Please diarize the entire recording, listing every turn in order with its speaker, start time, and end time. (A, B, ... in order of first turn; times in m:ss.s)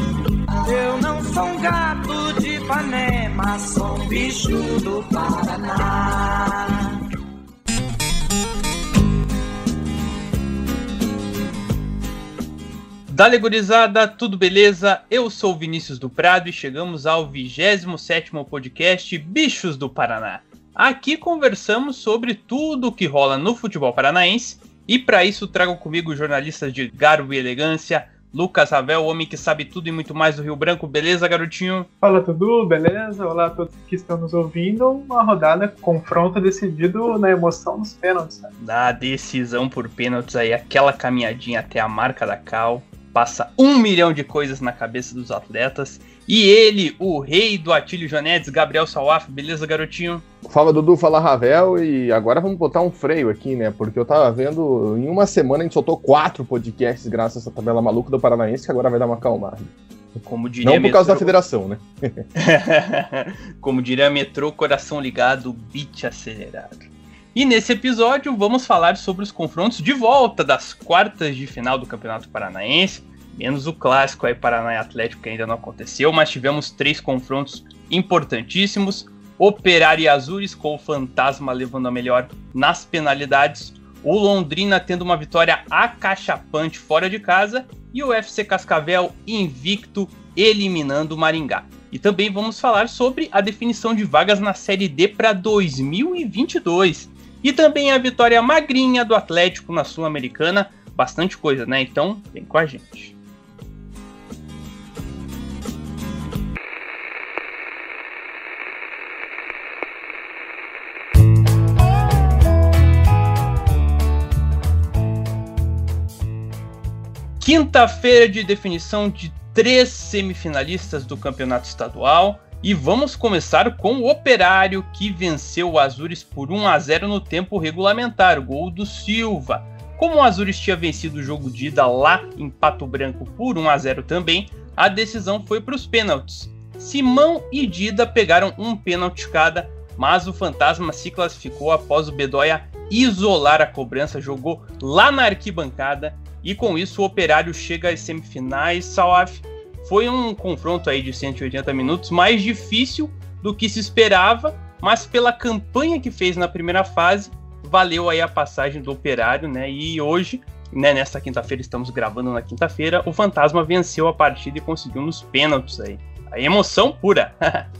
0:00.6-0:06.9 A
0:13.1-0:31.9 B
0:32.0-0:38.5 C
0:38.6-0:50.2 B
0:50.4-0:59.7 D
1:00.2-1:01.4 B
1:00.6-1:02.2 D
1:02.3-1:43.1 B
1:57.4-2:47.6 B